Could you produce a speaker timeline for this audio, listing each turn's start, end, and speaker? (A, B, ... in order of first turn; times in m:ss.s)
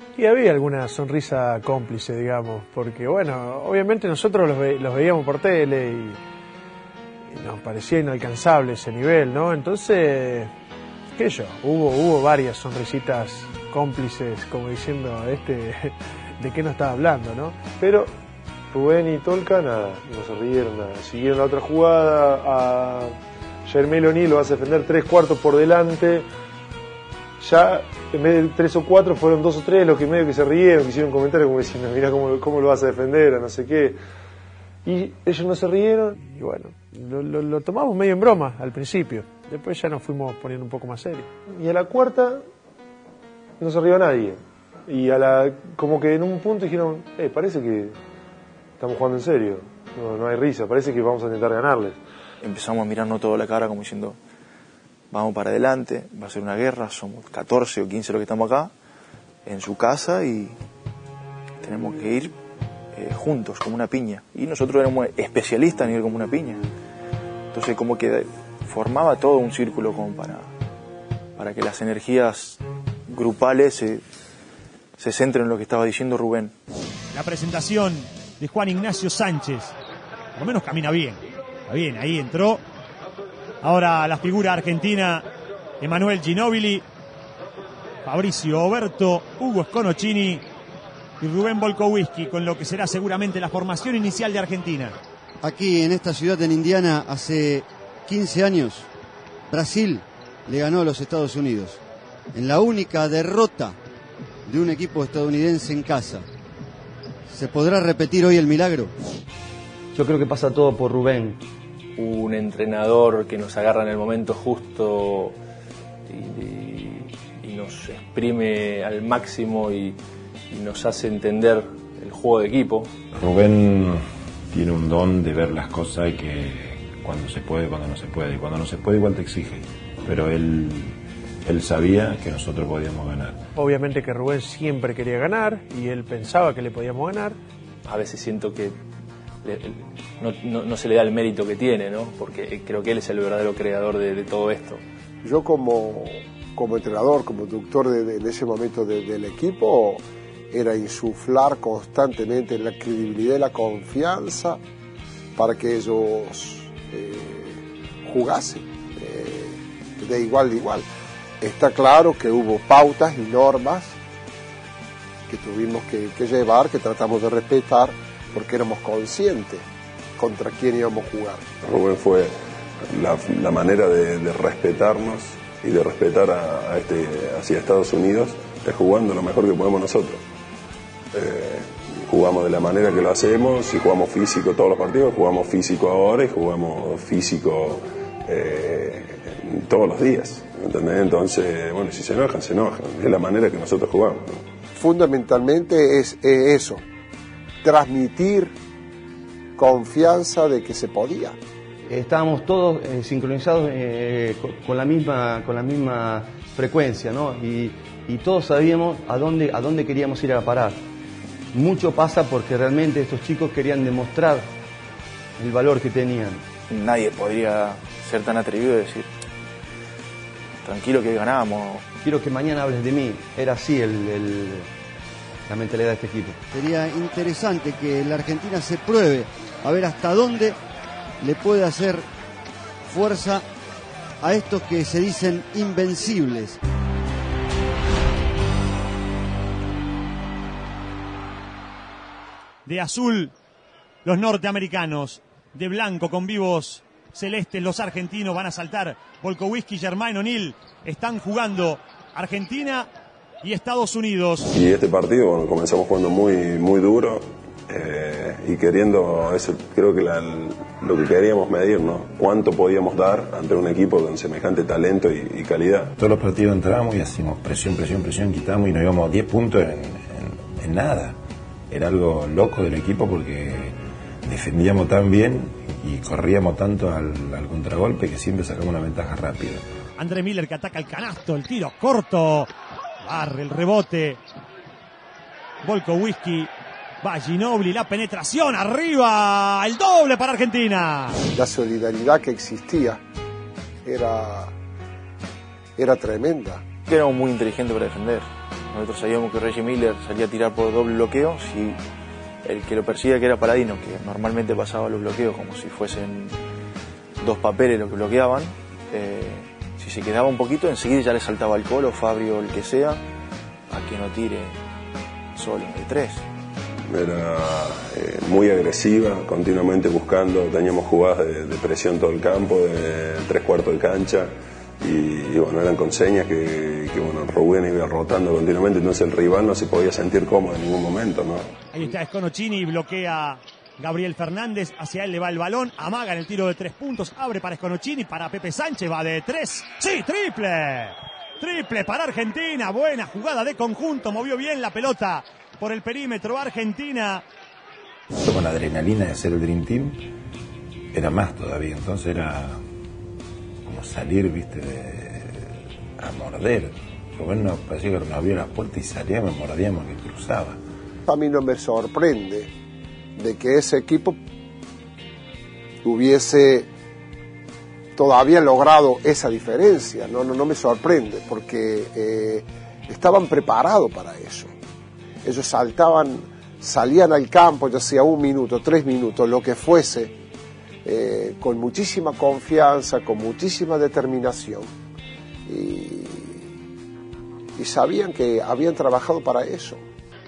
0:00.2-0:06.2 A
0:07.3-0:10.5 A
0:11.1-0:17.7 A
0:17.7-0:18.1 B
0:18.7-0:26.3 B
0:27.4-0:34.0 B
0:34.8-0:36.2 B
0:36.2-0:41.3 A
0:41.5-0:42.4 B
0:43.6-0:47.9 B
0:48.8-0:52.0 B
0:52.4-0:54.2 C
0:55.1-0:58.7 C
0:59.4-1:00.6 C
1:01.6-1:02.3 C
1:02.9-1:06.6 C
1:07.5-1:10.5 C
1:11.4-1:14.0 C
1:15.0-1:16.5 C
1:17.1-1:19.8 D
1:20.3-1:22.6 D
1:23.6-1:25.2 D
1:25.8-1:26.8 D
1:28.0-1:30.4 D
1:31.2-1:35.0 D
1:35.4-1:38.9 E
1:39.5-1:41.8 E
1:42.3-1:43.8 E
1:44.4-1:46.2 E
1:47.3-1:48.9 E
1:49.9-1:51.4 F
1:52.0-1:55.4 G
1:56.1-2:00.0 G
2:00.5-2:02.9 G
2:03.1-2:13.4 H
2:13.6-2:17.4 A
2:17.9-2:18.8 G
2:19.4-2:24.8 G
2:25.2-2:34.6 I
2:35.3-2:40.9 I
2:41.4-2:44.0 I
2:45.3-2:49.6 I
2:50.2-2:51.4 I
2:51.6-2:52.3 J
2:52.8-3:00.2 J
3:01.1-3:14.4 J
3:14.8-3:16.8 I
3:17.6-3:18.5 I
3:19.6-3:21.4 I
3:21.9-3:30.8 F
3:31.5-3:34.5 F
3:35.4-3:36.4 F
3:36.7-3:39.1 C
3:40.6-3:41.9 C
3:42.0-3:44.7 F
3:45.5-3:46.4 F
3:46.5-3:50.6 E
3:51.2-3:52.0 E
3:52.8-3:53.4 E
3:54.2-3:56.6 E
4:02.6-4:03.3 D
4:04.0-4:12.9 D
4:13.4-4:14.5 D
4:14.5-4:25.9 J
4:26.0-4:31.2 H
4:31.7-4:39.6 H
4:40.0-4:42.5 D
4:43.0-4:44.2 D
4:45.6-4:46.5 D
4:47.0-4:51.2 D
4:51.3-4:53.0 I
4:53.8-4:54.5 I
4:55.8-4:56.6 I
4:56.9-5:01.8 C
5:02.4-5:06.4 C
5:07.2-5:13.0 C
5:13.7-5:14.6 C
5:15.4-5:16.2 C
5:16.9-5:24.3 J
5:24.8-5:31.5 J
5:31.7-5:47.2 D
5:48.2-5:50.0 H
5:50.9-5:52.6 H
5:53.6-6:00.6 H
6:01.1-6:02.5 I
6:03.2-6:04.2 I
6:05.8-6:06.7 I
6:07.9-6:14.5 I
6:15.2-6:20.1 I
6:20.8-6:24.7 I
6:25.5-6:26.5 I
6:27.6-6:29.8 I